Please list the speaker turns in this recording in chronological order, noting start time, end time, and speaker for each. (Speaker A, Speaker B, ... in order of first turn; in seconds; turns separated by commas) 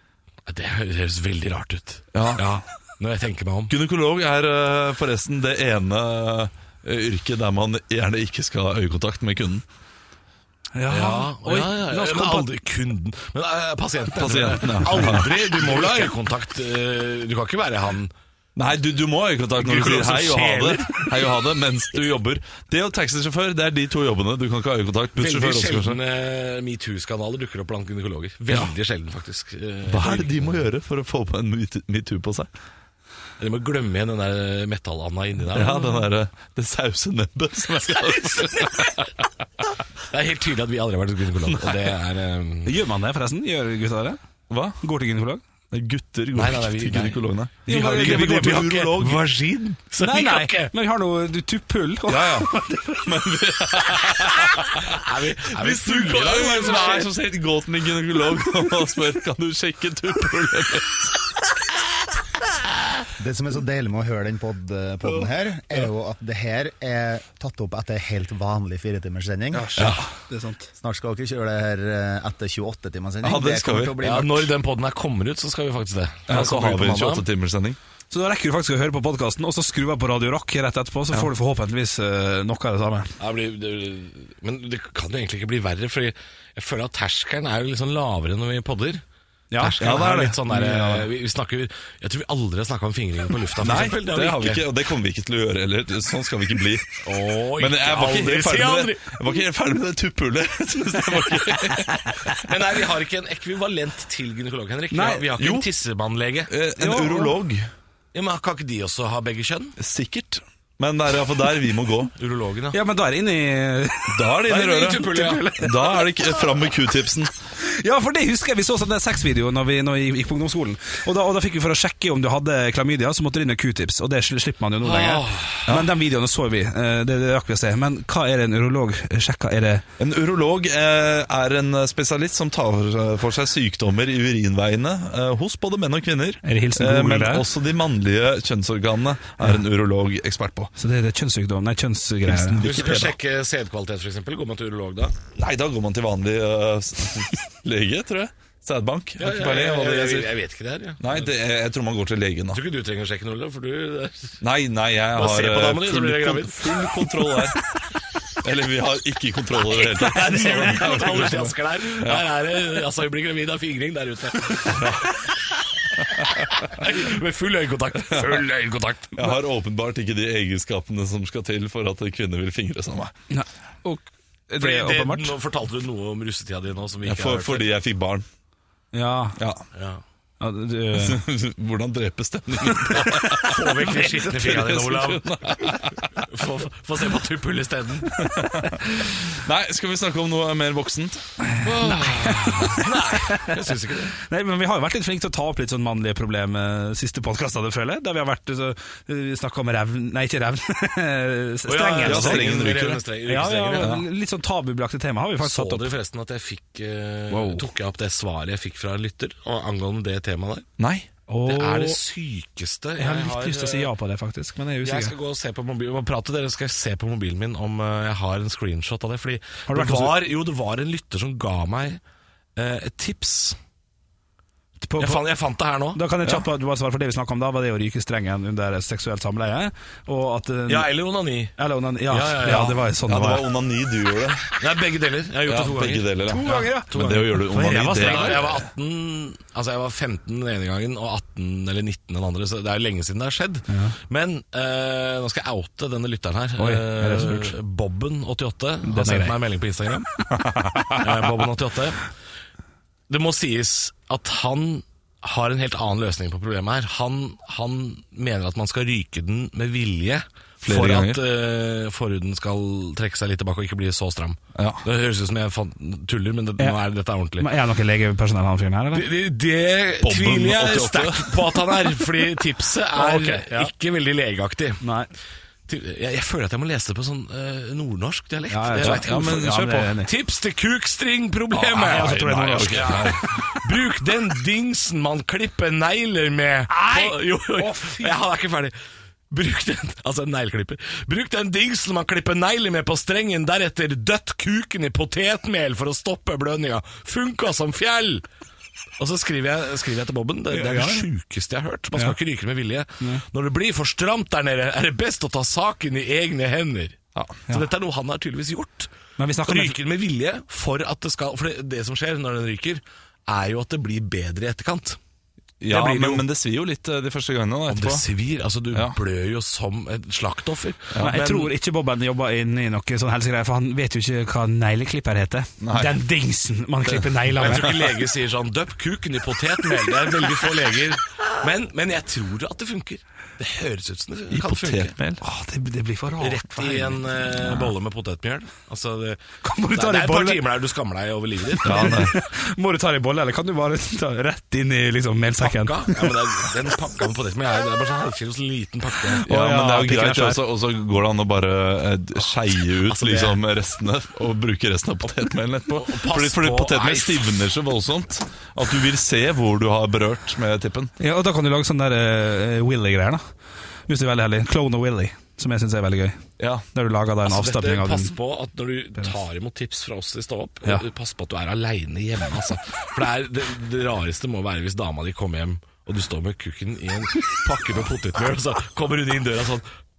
Speaker A: 0.5-3.7, Speaker B: 2.1-2.4, Speaker B: 3.7-9.6, Speaker C: 10.8-12.5, Speaker A: 10.9-18.1, Speaker B: 14.2-15.9, Speaker C: 14.9-15.2, Speaker B: 18.6-26.0, Speaker A: 19.6-21.0, Speaker A: 25.2-30.6, Speaker B: 29.9-32.5, Speaker A: 33.4-35.8, Speaker B: 35.5-39.0, Speaker C: 35.8-36.0, Speaker A: 40.1-42.8, Speaker B: 41.5-41.9, Speaker C: 42.6-44.2, Speaker B: 44.5-44.8, Speaker C: 44.8-45.4, Speaker B: 45.7-49.2, Speaker A: 46.4-50.7, Speaker C: 47.7-48.7, Speaker C: 50.0-53.1, Speaker B: 52.1-52.5, Speaker B: 53.0-61.1, Speaker A: 54.9-57.1, Speaker D: 63.2-69.7, Speaker C: 69.5-70.7, Speaker B: 69.8-70.1, Speaker D: 70.8-74.5, Speaker B: 73.2-74.0, Speaker A: 74.0-77.2, Speaker B: 76.3-77.8, Speaker C: 78.1-83.1, Speaker A: 83.2-89.0, Speaker C: 89.5-90.1, Speaker A: 89.6-94.6, Speaker B: 89.8-91.1, Speaker B: 93.6-97.0, Speaker A: 97.0-99.2, Speaker B: 97.6-102.1, Speaker A: 102.3-106.5, Speaker C: 104.9-105.3, Speaker B: 105.2-105.7, Speaker B: 106.5-107.7, Speaker C: 106.8-107.4, Speaker A: 108.1-109.8, Speaker B: 109.8-112.1, Speaker A: 112.2-112.8, Speaker C: 112.7-116.7, Speaker B: 114.1-115.1, Speaker A: 114.5-115.5, Speaker B: 115.6-117.3, Speaker C: 117.6-129.8, Speaker A: 124.8-125.7, Speaker B: 130.0-140.7, Speaker C: 136.4-137.5, Speaker C: 140.8-142.6, Speaker B: 142.3-143.2, Speaker A: 142.6-145.2, Speaker B: 145.3-150.3, Speaker A: 149.2-151.3, Speaker B: 151.0-152.6, Speaker A: 152.5-154.4, Speaker B: 154.4-157.6, Speaker A: 155.2-156.9, Speaker B: 158.4-162.3, Speaker A: 159.7-164.9, Speaker B: 164.7-165.2, Speaker B: 166.0-166.4, Speaker A: 166.1-169.4, Speaker B: 168.1-168.4, Speaker B: 169.2-173.1, Speaker C: 173.3-175.4, Speaker A: 174.6-177.7, Speaker B: 177.1-178.3, Speaker C: 178.9-179.4, Speaker B: 179.4-179.6, Speaker A: 179.7-180.0, Speaker C: 180.4-181.2, Speaker B: 180.9-186.2, Speaker C: 182.7-184.2, Speaker A: 183.5-185.4, Speaker A: 186.2-188.1, Speaker B: 188.2-191.3, Speaker C: 191.4-193.6, Speaker A: 191.6-194.2, Speaker C: 194.2-202.6, Speaker A: 201.7-203.9, Speaker B: 202.0-203.0, Speaker C: 203.3-205.9, Speaker B: 203.8-204.1, Speaker A: 205.4-210.7, Speaker C: 207.3-207.7, Speaker B: 210.8-211.1, Speaker C: 211.3-212.0, Speaker A: 211.4-213.9, Speaker C: 213.0-215.1, Speaker A: 214.8-222.0, Speaker C: 219.7-220.2, Speaker A: 222.6-223.6, Speaker C: 224.8-225.3, Speaker A: 225.0-226.0, Speaker C: 225.9-230.9, Speaker A: 230.7-232.9, Speaker C: 231.6-233.5, Speaker B: 233.1-234.5, Speaker A: 234.6-237.3, Speaker B: 235.5-238.7, Speaker C: 236.3-238.5, Speaker A: 237.8-250.1, Speaker C: 243.7-243.9, Speaker C: 246.6-247.5, Speaker C: 248.8-249.4, Speaker C: 250.8-251.0, Speaker A: 251.0-252.1, Speaker A: 253.1-267.5, Speaker B: 260.6-261.2, Speaker B: 264.6-264.8, Speaker C: 267.4-269.1, Speaker A: 268.9-274.8, Speaker B: 270.0-271.6, Speaker C: 272.9-273.7, Speaker C: 274.8-275.1, Speaker A: 275.7-282.1, Speaker C: 278.5-280.1, Speaker B: 278.8-279.9, Speaker B: 281.5-283.3, Speaker C: 281.9-283.2, Speaker A: 282.7-288.8, Speaker C: 286.7-288.2, Speaker A: 289.3-298.2, Speaker A: 299.0-307.0, Speaker C: 300.5-301.1, Speaker B: 307.1-307.4, Speaker A: 307.5-308.9, Speaker C: 309.2-309.8, Speaker A: 309.4-315.0, Speaker B: 315.6-318.1, Speaker C: 315.7-316.1, Speaker A: 315.7-316.2, Speaker A: 317.7-321.5, Speaker C: 321.0-327.9, Speaker B: 325.6-326.0, Speaker B: 326.9-327.7, Speaker A: 327.4-334.9, Speaker B: 334.3-335.2, Speaker C: 335.2-337.7, Speaker A: 336.2-342.0, Speaker C: 339.4-340.4, Speaker C: 341.5-346.4, Speaker B: 341.6-342.1, Speaker A: 345.4-349.3, Speaker C: 349.1-350.4, Speaker B: 349.3-360.9, Speaker A: 352.9-353.4, Speaker A: 355.7-357.2, Speaker C: 361.0-363.2, Speaker C: 363.9-366.2, Speaker B: 366.4-366.7, Speaker C: 366.7-368.1, Speaker A: 367.2-379.7